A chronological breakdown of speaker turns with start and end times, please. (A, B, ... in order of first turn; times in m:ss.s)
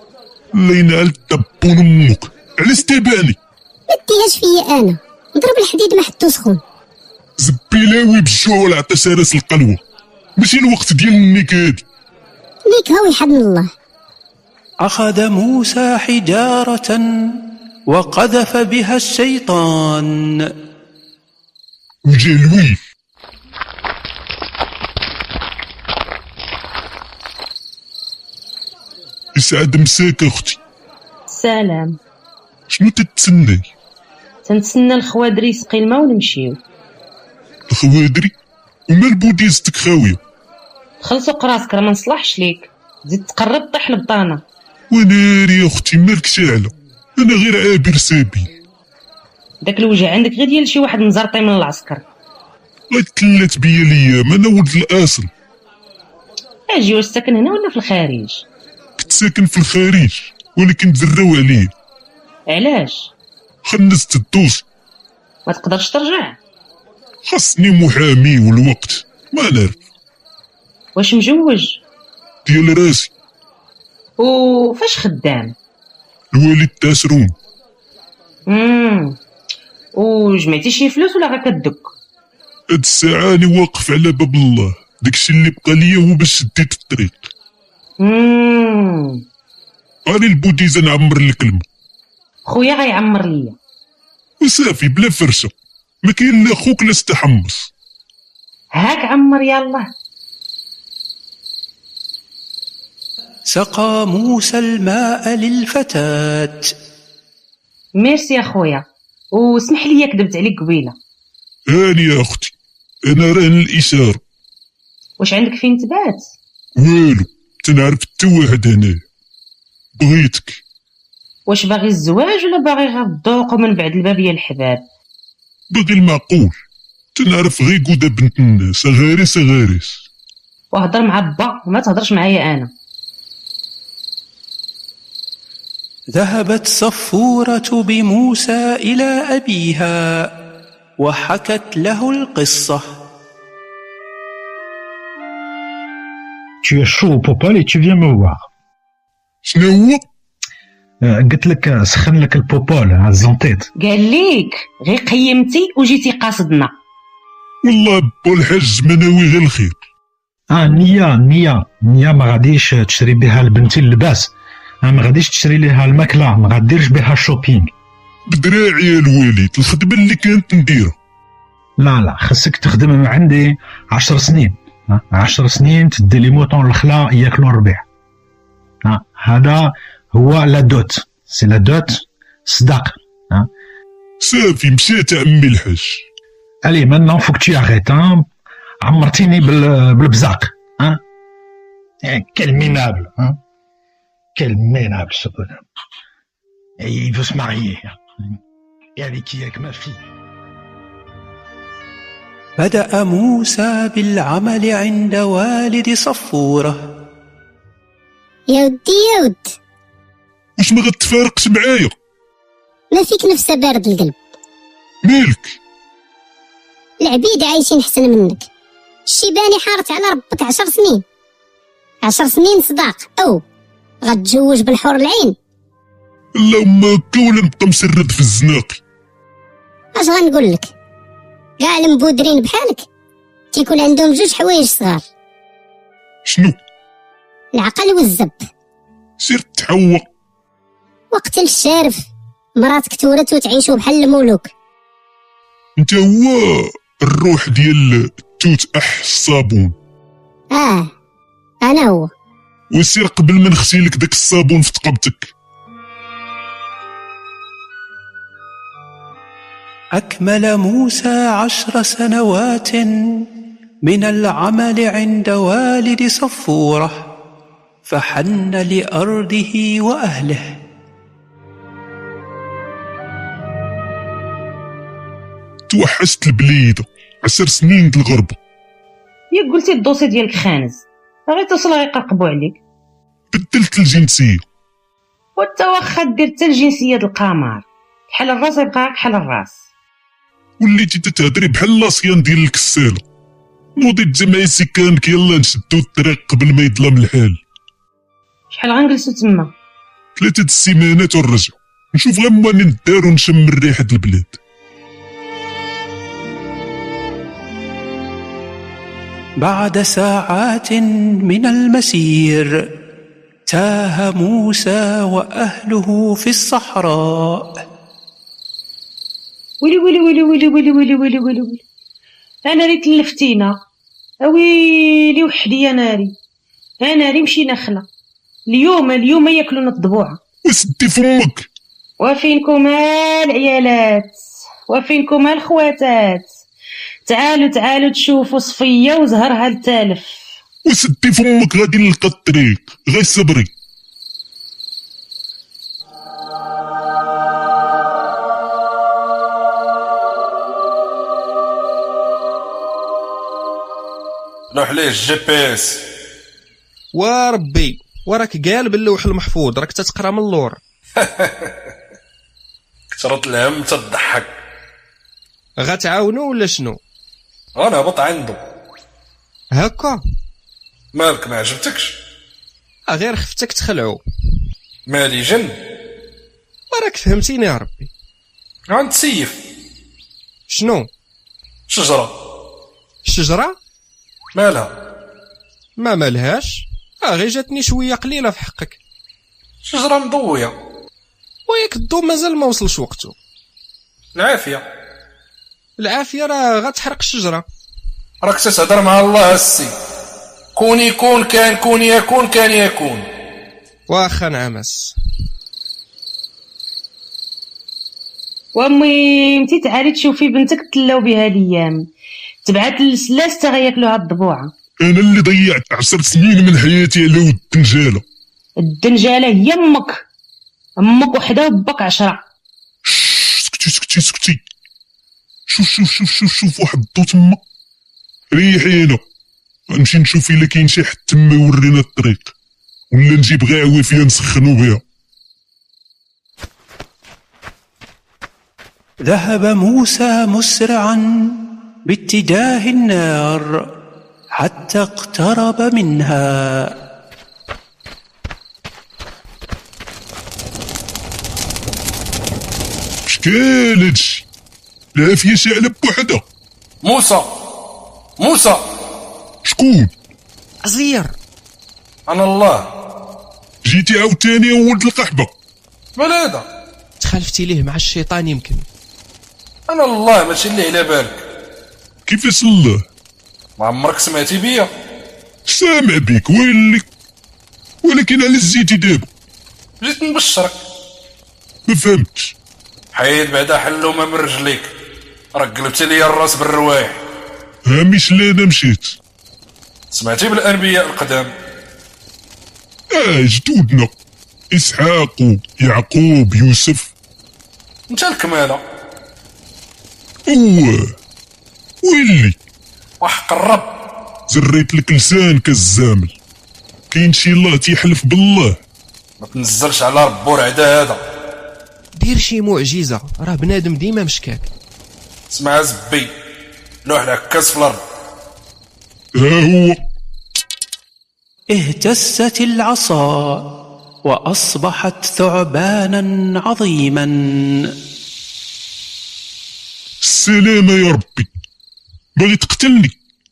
0:00.6-0:03.4 A
0:03.9-0:06.6 B
0:07.4-0:09.8 A
0:10.4-0:11.8 A
0:12.6-0:13.7 B
0:14.8-0:17.0 C
0:17.9-0:20.1 C
0:22.0-0:22.8 A
0:29.3-0:30.6 A
0:31.3-0:32.0 D
0:32.7-0:33.7 A
0:34.4-0:36.6 D
0:37.7-0:38.3 A
0:38.9-0:40.2 A
0:41.0-0:44.4 D
0:44.9-0:48.5 A
0:49.6-0:52.0 D
0:52.9-0:55.3 A
0:56.7-0:58.4 D
0:59.0-1:01.7 A
1:02.5-1:03.1 D
1:03.6-1:04.6 A
1:05.4-1:06.4 D
1:07.3-1:09.8 A
1:11.0-1:11.8 D
1:12.4-1:13.1 A
1:14.2-1:15.5 D
1:16.3-1:17.3 A
1:18.5-1:19.2 D
1:19.9-1:21.9 D
1:22.7-1:27.3 A
1:28.0-1:29.2 D
1:30.1-1:31.6 A
1:32.4-1:33.6 D
1:34.4-1:35.5 A
1:36.0-1:37.7 A
1:38.8-1:39.9 D
1:43.5-1:46.7 C
1:48.0-1:51.0 D
1:51.7-1:52.5 A
1:53.1-1:54.2 A
1:55.2-1:56.3 D
1:56.8-1:59.0 A
2:00.0-2:00.6 A
2:01.5-2:04.8 D
2:05.7-2:06.6 A
2:07.2-2:10.0 A
2:10.7-2:12.7 D
2:16.1-2:20.0 C
2:21.0-2:22.9 C
2:26.6-2:28.5 E
2:29.4-2:30.0 A
2:31.1-2:33.7 E
2:33.8-2:36.7 D
2:37.6-2:39.8 A
2:40.5-2:44.3 E
2:44.8-2:47.7 E
2:48.3-2:50.9 A
2:51.8-2:57.8 E
2:58.9-3:03.5 E
3:04.2-3:06.0 A
3:06.6-3:08.3 E
3:08.8-3:11.0 E
3:12.0-3:13.4 E
3:14.4-3:15.6 E
3:16.8-3:18.0 E
3:19.0-3:20.0 E
3:22.6-3:26.9 C
3:28.5-3:29.6 B
3:30.6-3:31.9 A
3:32.9-3:34.2 B
3:35.0-3:35.6 A
3:37.0-3:38.4 B
3:39.1-3:41.0 B
3:42.0-3:43.4 B
3:44.0-3:45.3 B
3:46.4-3:48.8 A
3:49.9-3:50.7 B
3:51.6-3:52.8 B
3:53.5-3:55.0 B
3:56.2-3:56.6 A
3:57.5-3:58.5 B
3:59.2-4:00.0 A
4:01.1-4:02.0 B
4:02.6-4:04.5 B
4:05.8-4:09.7 A
4:10.5-4:10.9 B
4:11.6-4:12.1 B
4:12.7-4:15.3 A
4:20.0-4:22.9 C
4:23.8-4:27.0 C
4:27.8-4:30.6 C
4:35.7-4:38.4 A
4:39.3-4:42.6 D
4:43.3-4:44.4 A
4:45.4-4:49.6 D
4:50.6-4:53.0 A
4:53.8-4:57.4 A
4:58.5-4:59.5 D
5:00.2-5:04.4 A
5:09.4-5:12.5 C
5:13.5-5:17.6 C
5:19.6-5:21.6 D
5:22.4-5:23.6 D
5:24.2-5:26.1 D
5:26.8-5:27.9 D
5:28.5-5:30.2 D
5:30.4-5:31.5 A
5:32.0-5:36.3 D
5:37.0-5:40.2 D
5:40.6-5:43.5 A
5:54.5-5:55.8 F
5:56.9-6:00.6 G
6:01.0-6:01.5 F
6:02.9-6:04.3 F
6:05.6-6:06.8 G
6:07.6-6:08.4 F
6:09.6-6:10.0 G
6:10.9-6:11.9 F
6:12.9-6:14.0 G
6:14.9-6:15.5 F
6:16.7-6:17.9 G
6:18.7-6:19.4 F
6:20.5-6:20.9 G
6:21.7-6:22.1 F
6:23.0-6:23.6 G
6:24.3-6:24.7 F
6:25.8-6:28.8 G
6:29.6-6:30.5 F
6:31.5-6:33.1 G
6:34.1-6:34.6 F
6:35.8-6:37.4 G
6:38.2-6:39.7 F
6:40.6-6:43.0 F
6:43.9-6:44.9 G
6:48.5-6:51.9 D
6:52.4-6:54.5 D
6:54.8-6:58.0 A
6:58.6-7:00.0 D
7:00.8-7:02.2 D
7:02.8-7:04.4 A
7:05.5-7:07.4 A
7:08.3-7:09.0 A
7:09.7-7:12.3 A
7:12.9-7:14.8 A
7:19.0-7:23.6 C
7:24.4-7:26.7 C
7:33.1-7:34.2 A
7:35.0-7:36.2 A
7:36.8-7:37.3 F
7:38.2-7:38.6 F
7:39.4-7:39.9 A
7:40.6-7:41.1 G
7:42.1-7:42.6 F
7:43.6-7:45.3 A
7:46.0-7:46.4 F
7:47.0-7:48.6 G
7:49.7-7:51.2 F
7:52.1-7:52.8 A
7:53.6-7:54.7 F
7:55.5-7:56.8 A
7:57.8-7:59.1 A
7:59.8-8:00.6 F
8:01.7-8:02.3 A
8:02.9-8:04.7 F
8:05.3-8:07.0 F
8:07.7-8:09.0 A
8:09.9-8:11.3 F
8:12.9-8:13.9 A
8:14.5-8:16.9 A
8:17.9-8:18.6 F
8:20.3-8:20.9 A
8:21.8-8:22.4 A
8:23.0-8:23.7 F
8:24.3-8:26.2 A
8:26.9-8:28.6 A
8:29.2-8:31.0 F
8:32.0-8:34.5 G
8:35.3-8:36.1 F
8:36.8-8:37.8 F
8:39.2-8:39.8 A
8:41.5-8:43.5 C
8:44.0-8:47.7 C
8:50.0-8:51.3 A
8:52.2-8:53.0 A